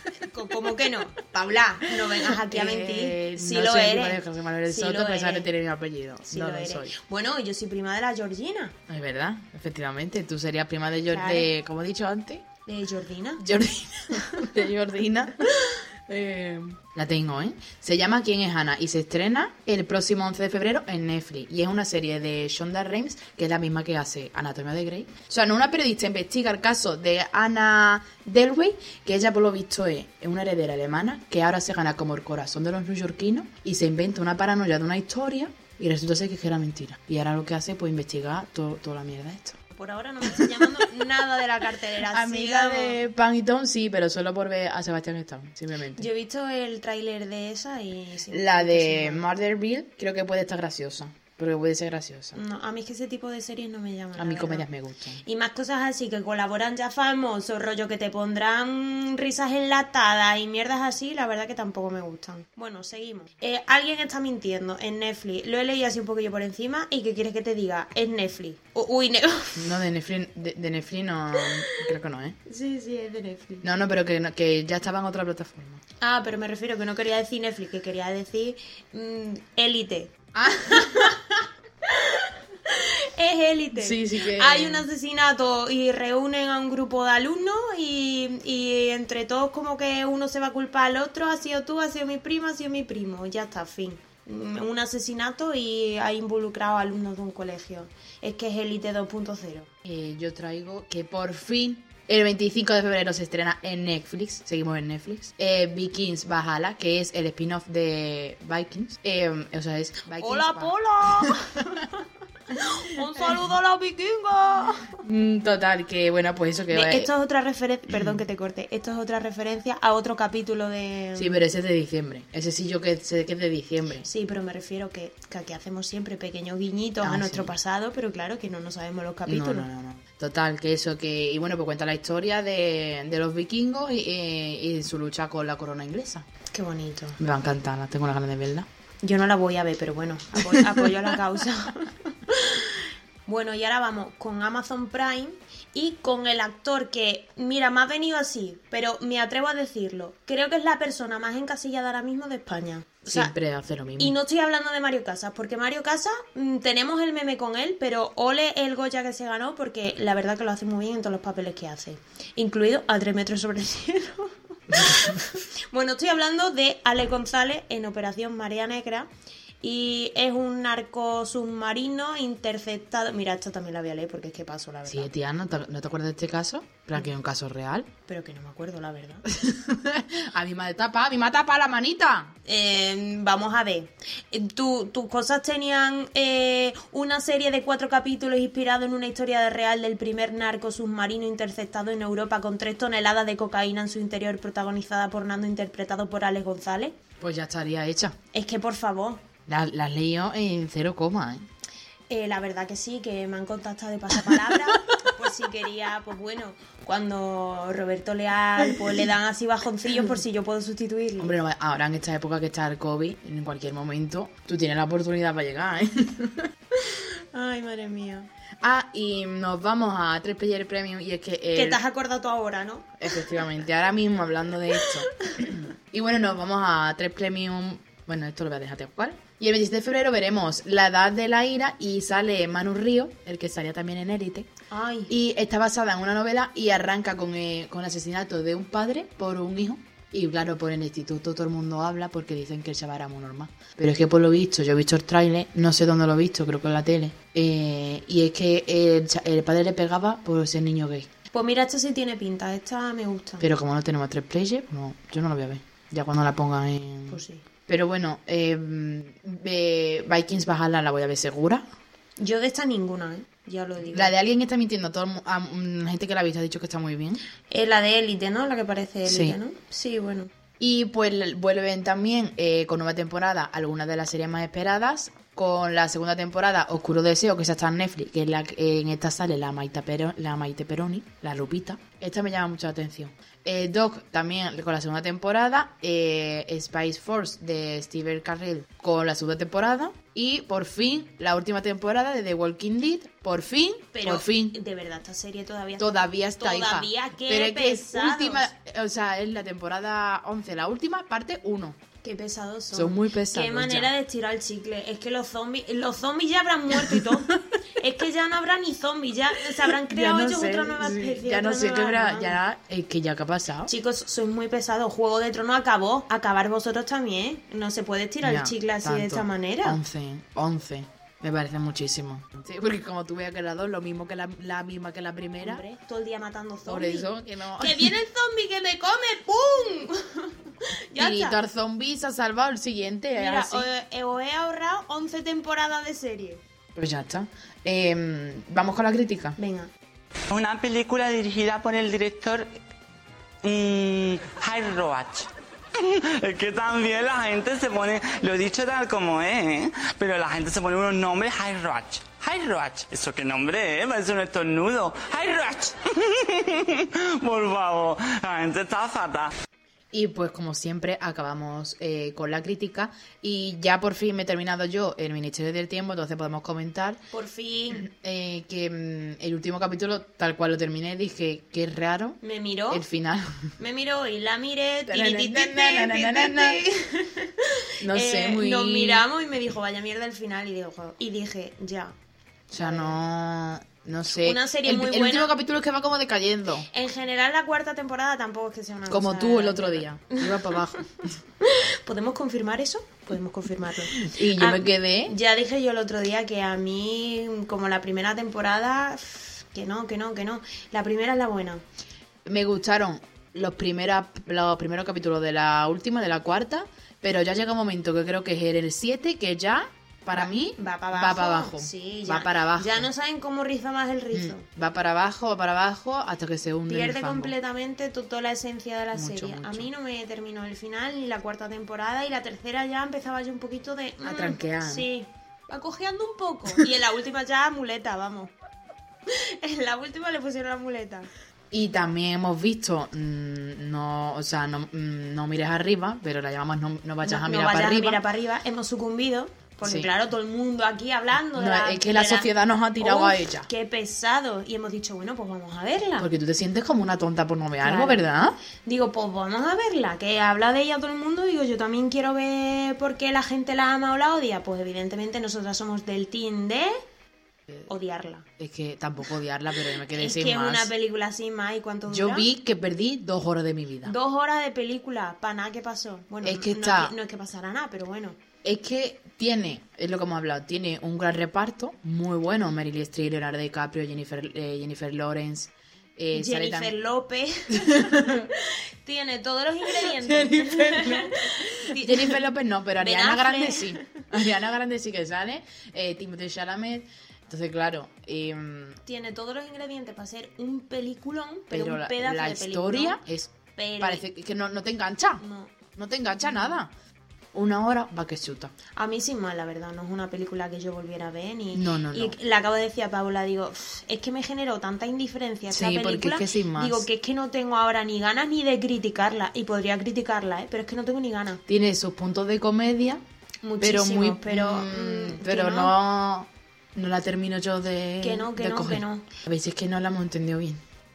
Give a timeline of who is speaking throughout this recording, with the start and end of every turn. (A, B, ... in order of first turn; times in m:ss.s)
0:00.2-0:05.5 A
0:02.0-0:06.9 B
0:06.3-0:08.7 A
0:08.9-0:12.4 B
0:11.1-0:11.5 A
0:12.6-0:13.4 A
0:13.4-0:39.6 B
0:39.7-0:43.0 A
0:40.3-0:40.8 B
0:42.1-0:46.1 B
0:46.0-0:49.2 A
0:48.3-0:52.4 B
0:52.3-0:54.6 A
0:54.2-0:55.2 B
0:55.2-1:09.8 A
1:09.6-1:12.4 B
1:12.4-1:13.6 A
1:13.6-1:15.8 B
1:16.0-1:39.7 A
1:20.3-1:21.1 B
1:23.7-1:24.9 B
1:39.8-1:51.3 B
1:50.2-1:52.0 A
1:52.5-1:55.0 A
1:55.0-1:57.1 B
1:56.7-2:01.4 A
1:57.9-1:58.2 B
2:01.2-2:04.1 B
2:04.0-2:09.7 A
2:07.0-2:07.5 B
2:09.3-2:16.2 B
2:16.5-2:17.2 A
2:17.2-2:18.7 B
2:19.0-2:33.3 A
2:20.4-2:21.1 B
2:33.0-2:34.2 B
2:34.0-2:49.1 A
2:49.6-2:55.1 A
2:54.9-2:57.9 B
2:58.1-2:59.2 A
2:59.3-3:02.3 B
3:02.4-3:16.9 A
3:17.2-3:18.2 B
3:18.3-3:19.2 A
3:19.5-3:21.5 B
3:22.1-3:31.4 A
3:31.2-3:36.5 B
3:36.8-3:38.3 A
3:38.6-3:41.8 B
3:41.5-3:43.3 A
3:43.0-3:54.5 B
3:44.8-3:45.5 A
3:54.7-3:55.1 A
3:55.1-4:11.1 B
4:11.3-4:13.4 A
4:13.4-4:21.6 B
4:17.1-4:17.4 A
4:22.2-4:24.1 A
4:23.9-4:27.2 B
4:27.5-4:30.3 A
4:29.1-4:29.4 B
4:30.6-4:54.6 B
4:53.9-4:58.5 A
4:55.8-5:01.8 B
5:02.0-5:12.4 A
5:02.7-5:03.9 B
5:06.7-5:07.4 B
5:09.6-5:13.7 B
5:13.7-5:19.8 A
5:18.2-5:25.6 B
5:25.4-5:31.4 A
5:26.6-5:27.9 B
5:31.0-5:33.7 B
5:33.1-5:36.4 A
5:36.7-5:39.4 B
5:39.4-5:39.7 A
5:40.3-5:42.5 C
5:43.4-5:59.3 C
5:59.9-6:07.0 B
6:07.1-6:07.8 A
6:07.7-6:12.2 B
6:12.2-6:12.8 A
6:12.7-6:13.5 B
6:13.6-6:21.9 A
6:14.9-6:16.6 B
6:17.8-6:19.0 B
6:22.5-6:26.7 B
6:22.6-6:23.0 A
6:24.2-6:25.3 A
6:26.7-6:30.5 A
6:28.9-6:30.9 B
6:31.4-6:41.6 A
6:34.0-6:35.1 B
6:42.2-6:52.9 B
6:50.1-6:54.4 A
6:54.1-6:57.3 B
6:56.7-7:08.3 A
6:58.9-6:59.7 B
7:04.0-7:04.9 B
7:09.1-7:11.1 A
7:11.5-7:18.0 B
7:17.0-7:26.1 A
7:19.6-7:19.9 B
7:21.3-7:23.5 B
7:26.0-7:28.4 B
7:27.6-7:36.8 A
7:37.7-7:38.2 A
7:38.4-7:40.7 B
7:39.8-7:42.3 A
7:41.9-7:44.0 B
7:43.8-7:48.2 A
7:46.2-7:46.9 B
7:48.4-7:56.7 B
7:56.1-8:02.2 A
7:57.5-7:58.3 B
7:59.7-8:08.8 B
8:02.8-8:04.0 A
8:08.8-8:13.0 A
8:11.5-8:16.7 B
8:13.6-8:14.0 A
8:15.2-8:15.5 A
8:16.2-8:16.6 A
8:17.3-8:18.5 B
8:18.8-8:31.4 A
8:21.5-8:22.2 B
8:25.5-8:26.9 B
8:31.5-8:33.0 B
8:33.4-8:35.7 A
8:33.6-8:40.6 B
8:38.0-8:39.1 A